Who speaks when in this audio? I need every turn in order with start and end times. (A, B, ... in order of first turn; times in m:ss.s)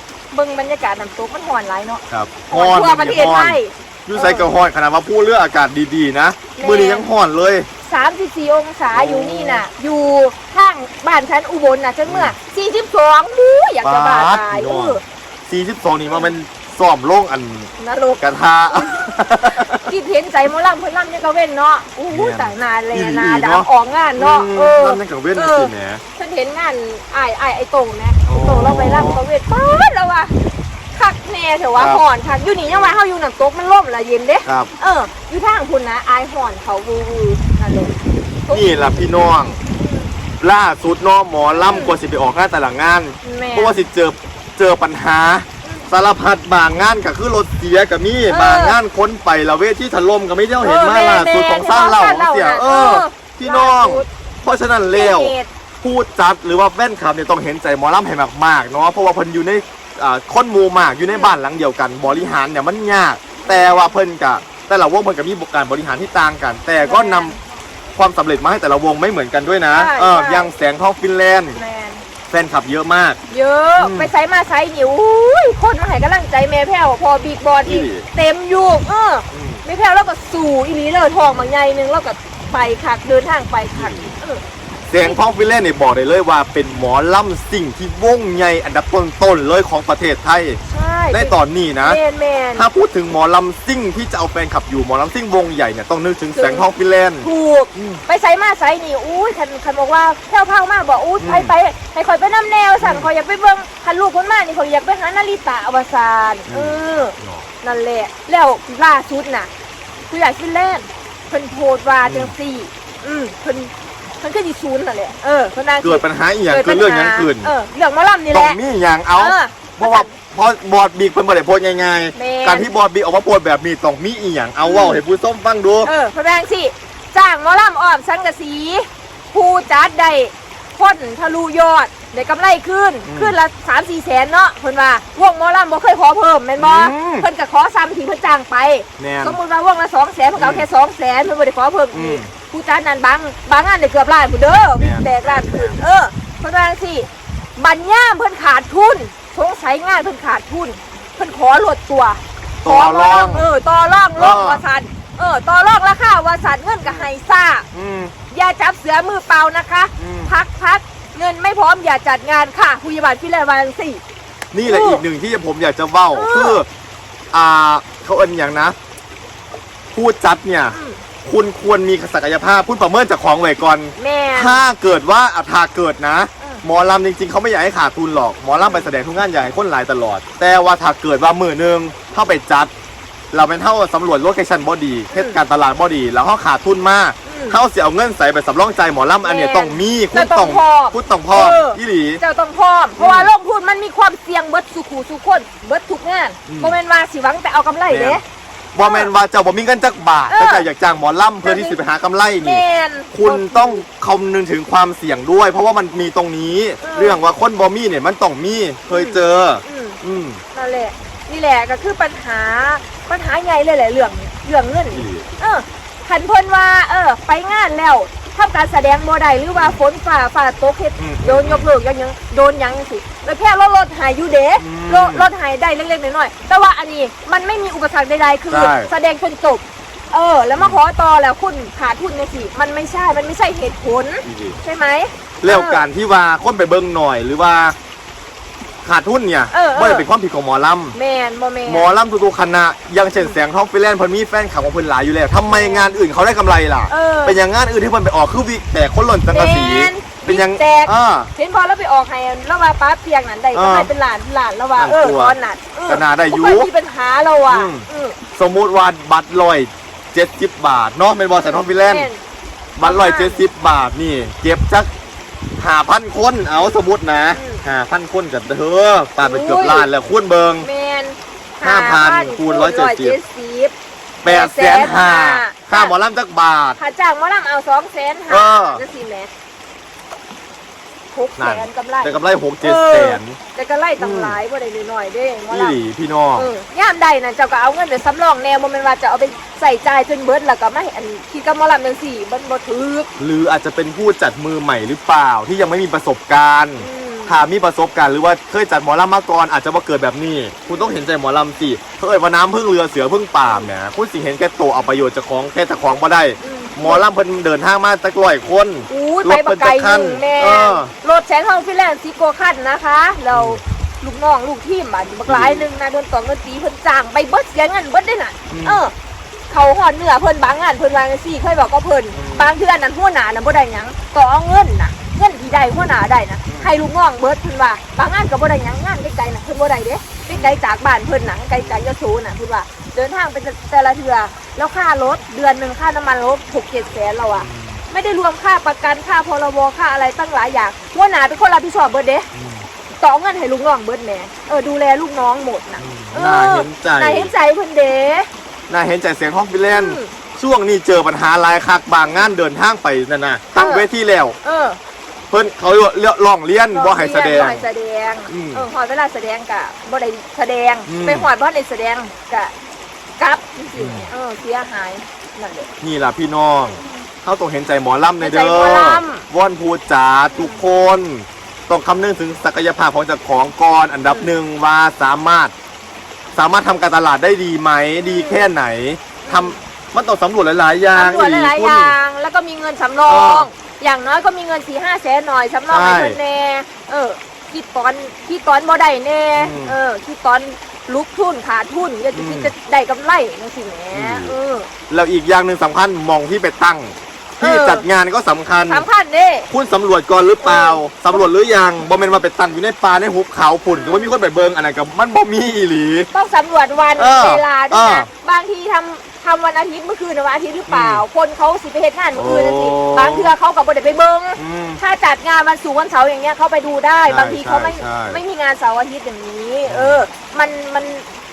0:00.3-0:04.5 A
0:02.1-0:07.7 B
0:06.6-0:07.1 A
0:07.8-0:15.0 A
0:08.9-0:09.6 B
0:12.0-0:12.3 B
0:13.8-0:19.8 B
0:17.8-0:30.3 A
0:22.1-0:26.0 B
0:28.3-0:29.2 B
0:30.9-0:38.8 A
0:31.8-0:32.0 B
0:34.4-0:34.7 B
0:38.5-0:39.6 B
0:39.8-0:40.1 A
0:40.4-1:07.3 B
0:41.5-0:42.0 A
0:43.2-0:43.8 A
0:48.3-0:48.8 A
0:50.6-0:54.1 A
0:54.9-0:55.5 A
1:01.1-1:01.3 A
1:03.4-1:03.9 A
1:06.8-1:07.4 A
1:08.0-1:11.6 B
1:09.7-1:10.5 A
1:11.5-1:12.0 A
1:12.3-1:13.2 B
1:13.3-1:24.4 A
1:13.8-1:14.1 B
1:17.6-1:18.1 B
1:19.3-1:19.6 B
1:23.7-1:24.1 B
1:24.9-1:30.6 B
1:30.7-1:32.7 A
1:31.1-1:32.0 B
1:32.6-1:38.0 B
1:36.4-1:36.7 A
1:37.2-1:49.5 A
1:41.2-1:41.5 B
1:42.8-1:43.1 B
1:46.5-1:47.4 B
1:50.1-1:58.6 A
1:52.0-1:52.3 B
1:55.8-1:57.5 B
1:58.3-2:05.9 B
1:59.2-2:00.1 A
2:02.1-2:02.7 A
2:04.6-2:05.0 A
2:05.8-2:37.7 A
2:13.0-2:13.3 B
2:16.6-2:17.3 B
2:19.0-2:19.4 B
2:20.4-2:20.6 B
2:21.9-2:22.3 B
2:24.5-2:25.8 B
2:32.6-2:33.5 B
2:34.2-2:34.6 B
2:36.8-2:37.1 B
2:37.7-2:38.1 B
2:38.3-2:44.0 A
2:40.0-2:40.3 B
2:44.5-2:46.7 B
2:44.6-2:45.0 A
2:46.1-2:46.6 A
2:47.3-2:48.7 B
2:49.9-3:02.7 B
2:50.7-2:51.0 A
2:54.0-2:54.6 A
2:58.6-2:58.9 A
3:03.3-3:12.2 B
3:05.1-3:05.4 A
3:07.2-3:07.6 A
3:09.2-3:18.2 A
3:13.0-3:13.3 B
3:16.4-3:16.7 B
3:17.9-3:18.2 B
3:18.7-3:30.4 B
3:18.8-3:19.1 A
3:20.3-3:20.7 A
3:21.4-3:21.8 A
3:22.4-3:23.8 A
3:26.8-3:27.2 A
3:28.9-3:30.0 A
3:30.5-3:55.8 A
3:34.9-3:35.3 B
3:39.5-3:39.8 B
3:41.0-3:41.7 B
3:44.6-3:45.3 B
3:48.5-3:48.9 B
3:54.2-3:54.6 B
3:55.4-3:57.7 B
3:58.8-4:01.0 B
3:59.5-4:00.1 A
4:00.9-4:01.9 A
4:01.6-4:11.3 B
4:05.4-4:05.9 A
4:06.9-4:07.4 A
4:09.3-4:18.2 A
4:13.5-4:13.9 B
4:14.8-4:16.7 B
4:17.5-4:22.1 B
4:21.8-4:22.2 A
4:22.8-4:24.9 B
4:22.8-4:23.4 A
4:25.6-4:30.7 B
4:27.3-4:27.6 A
4:29.2-4:29.9 A
4:30.6-4:33.7 A
4:31.6-4:33.2 B
4:34.2-4:36.8 B
4:34.2-4:35.9 A
4:36.8-4:39.3 A
4:38.3-4:38.8 B
4:41.1-4:45.8 A
4:41.4-4:43.4 B
4:44.0-4:44.4 B
4:45.5-4:46.5 B
4:46.4-4:53.1 A
4:53.2-5:10.9 B
4:56.8-4:57.4 A
5:06.4-5:07.0 A
5:08.9-5:18.9 A
5:13.3-5:13.6 B
5:15.3-5:15.7 B
5:18.5-5:18.8 B
5:19.5-5:42.3 A
5:22.1-5:22.5 B
5:26.4-5:26.7 B
5:30.3-5:30.6 B
5:31.6-5:31.9 B
5:37.4-5:37.8 B
5:42.3-5:42.6 B
5:43.0-5:48.3 A
5:45.8-5:47.3 B
5:48.7-5:54.4 B
5:49.7-5:50.1 A
5:53.6-5:53.9 A
5:54.4-5:54.8 A
5:55.3-5:57.6 B
5:56.7-6:02.5 A
5:58.3-5:58.6 B
6:00.8-6:01.3 B
6:03.2-6:05.7 A
6:03.8-6:04.1 B
6:05.8-6:15.5 B
6:06.6-6:07.0 A
6:08.2-6:09.2 A
6:10.3-6:10.6 A
6:14.1-6:14.3 A
6:16.3-6:21.9 B
6:18.0-6:18.5 A
6:19.2-6:19.6 A
6:20.9-6:34.7 A
6:23.0-6:23.5 B
6:25.7-6:26.2 B
6:29.4-6:29.8 B
6:32.1-6:32.5 B
6:33.9-6:34.3 B
6:34.9-6:38.8 B
6:37.4-6:37.8 A
6:38.7-6:39.5 A
6:39.5-6:46.1 B
6:40.4-6:41.2 A
6:43.7-6:44.1 A
6:46.1-7:01.0 A
6:47.0-6:48.1 B
6:50.7-6:51.0 B
6:52.1-6:53.3 B
6:54.4-6:54.8 B
6:57.0-6:58.2 B
6:59.6-7:00.0 B